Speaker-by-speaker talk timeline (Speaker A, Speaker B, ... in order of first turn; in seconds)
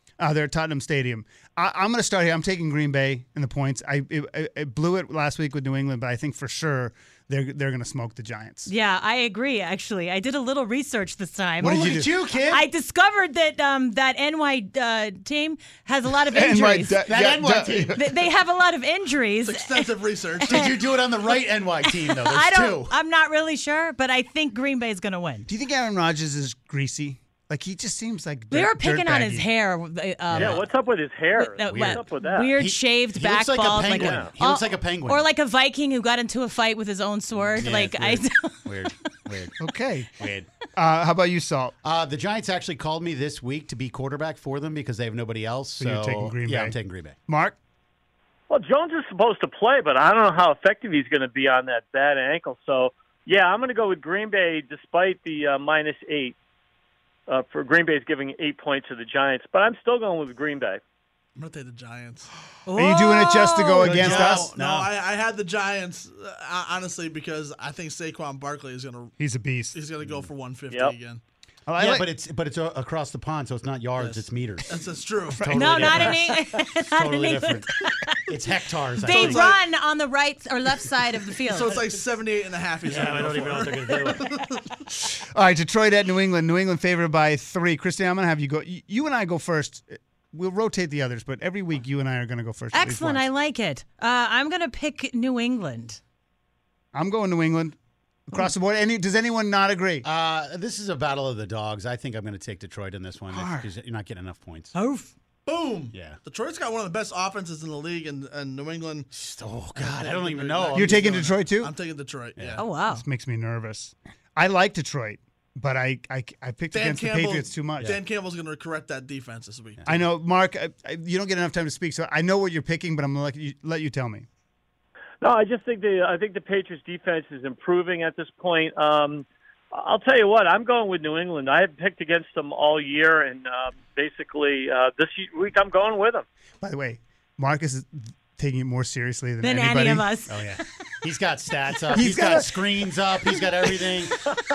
Speaker A: 0.2-8.7, 11.6-12.1, 16.3-18.1, 25.5-29.5, 39.6-40.1, 40.7-41.7, 45.8-47.5, 62.8-64.5, 69.2-69.8, 71.7-72.1, 75.3-76.2, 79.1-79.6, 85.1-93.3, 96.9-97.8, 98.3-100.0, 103.3-103.7, 110.7-111.7, 112.8-118.0, 119.8-124.3, 136.6-140.1, 141.9-142.6
Speaker B: 8.6-17.1, 17.9-20.8, 21.8-25.5, 28.5-39.5, 62.7-64.0, 75.5-78.2, 79.0-81.8, 92.7-96.0, 104.7-105.1, 112.6-113.0, 139.4-140.8
Speaker C: 11.6-12.7, 17.1-17.9, 20.4-22.9, 30.3-30.6, 31.7-32.0, 32.5-35.2, 37.3-39.5, 40.2-40.5, 41.8-47.2, 63.8-64.9, 70.0-70.3, 71.8-77.7, 78.2-79.6, 82.9-84.2, 100.0-104.7, 105.9-106.2, 109.1-111.3, 112.3-112.6, 140.3-144.2
Speaker D: 19.4-20.8, 61.4-62.3, 63.9-69.1, 69.7-71.2, 74.0-75.5, 81.5-84.8, 105.5-109.1, 109.7-112.7, 116.7-120.0
Speaker E: 30.4-32.5, 33.9-34.3, 48.5-56.4, 57.3-60.8, 125.2-136.2